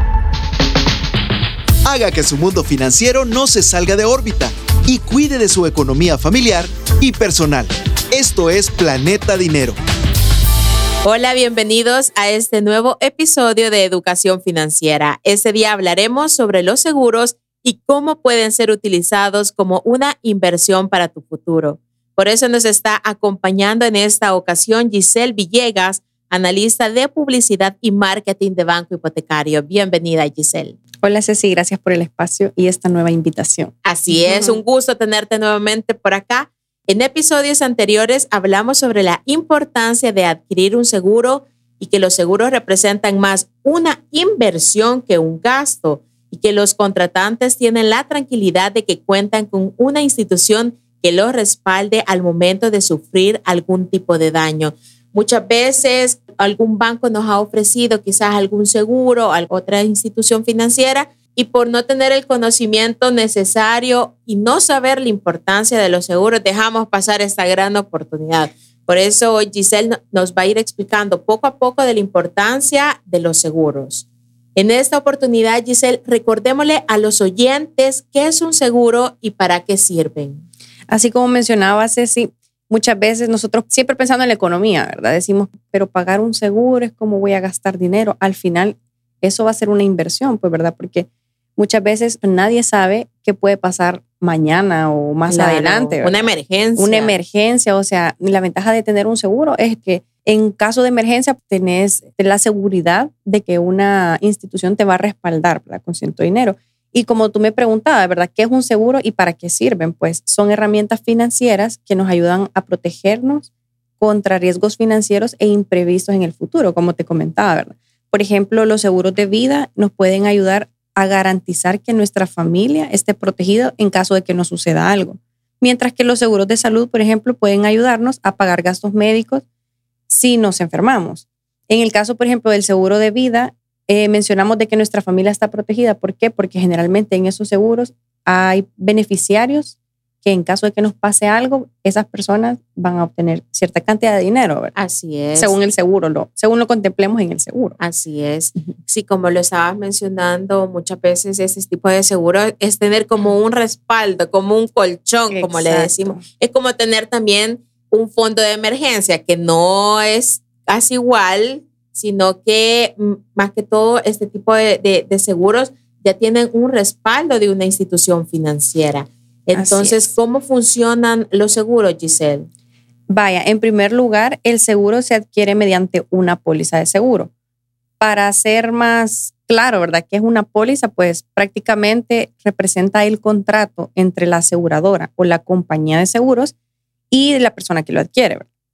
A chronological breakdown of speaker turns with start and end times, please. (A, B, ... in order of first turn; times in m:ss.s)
0:01.8-0:09.8 A
0:11.0-0:30.8 B
0:31.0-0:34.6 C
0:33.8-1:20.4 B
1:20.9-2:09.4 C
1:35.3-1:37.1 B
2:10.1-2:24.7 C
2:24.7-2:25.6 B
2:25.4-2:27.8 C
2:27.8-2:52.5 B
2:35.3-2:36.2 C
2:49.5-2:50.1 C
2:53.1-2:57.3 C
2:58.0-3:06.5 C
3:07.1-3:08.5 C